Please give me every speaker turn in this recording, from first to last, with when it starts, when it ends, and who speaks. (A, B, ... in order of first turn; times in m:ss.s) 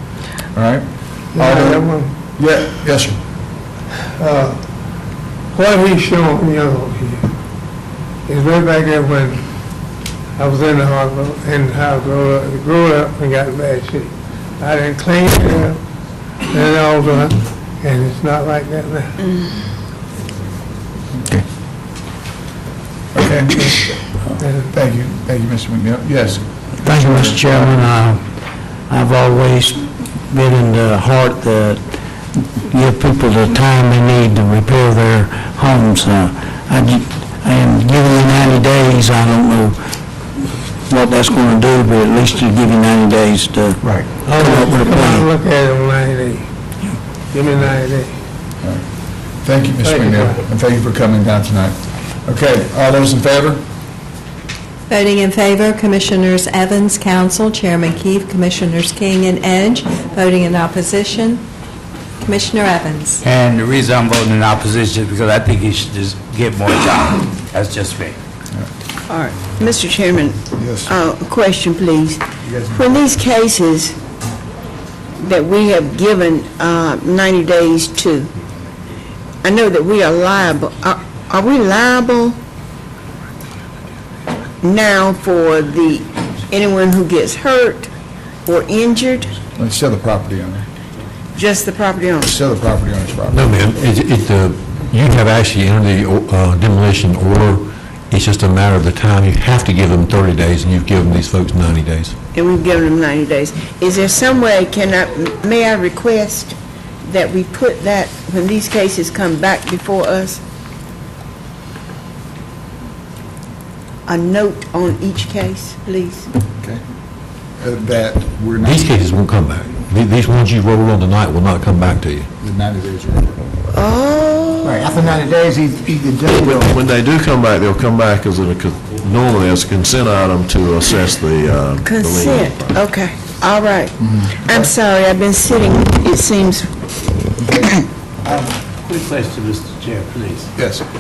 0:00.5-0:03.2 A
0:01.4-0:02.1 B
0:04.2-0:04.6 B
0:05.5-0:07.3 B
0:08.3-0:09.4 B
0:10.4-0:15.8 B
0:16.5-0:19.2 B
0:23.1-0:24.1 A
0:24.4-0:24.7 B
0:24.7-0:27.4 A
0:26.8-0:28.2 C
0:28.9-0:31.8 C
0:32.6-0:39.8 C
0:40.9-0:45.3 C
0:44.3-0:46.5 B
0:47.3-0:48.2 B
0:49.4-0:53.6 A
0:49.8-0:50.4 B
0:54.9-1:01.4 D
1:02.2-1:03.2 D
1:03.2-1:08.2 E
1:09.1-1:14.0 F
1:10.6-1:10.9 A
1:12.4-1:13.0 A
1:15.2-1:18.3 F
1:19.4-1:22.4 F
1:24.6-1:27.9 F
1:28.4-1:29.3 F
1:29.6-1:30.7 A
1:31.4-1:32.3 F
1:32.2-1:33.5 A
1:33.3-1:42.2 G
1:42.3-1:50.4 F
1:54.1-1:56.3 F
1:57.6-1:58.9 A
1:58.6-2:02.3 G
2:02.4-2:03.4 A
2:03.7-2:05.0 F
2:04.7-2:06.7 H
2:06.3-2:12.8 I
2:11.8-2:16.7 F
2:14.0-2:14.7 A
2:17.4-2:18.5 A
2:18.8-2:20.5 E
2:20.6-2:20.8 A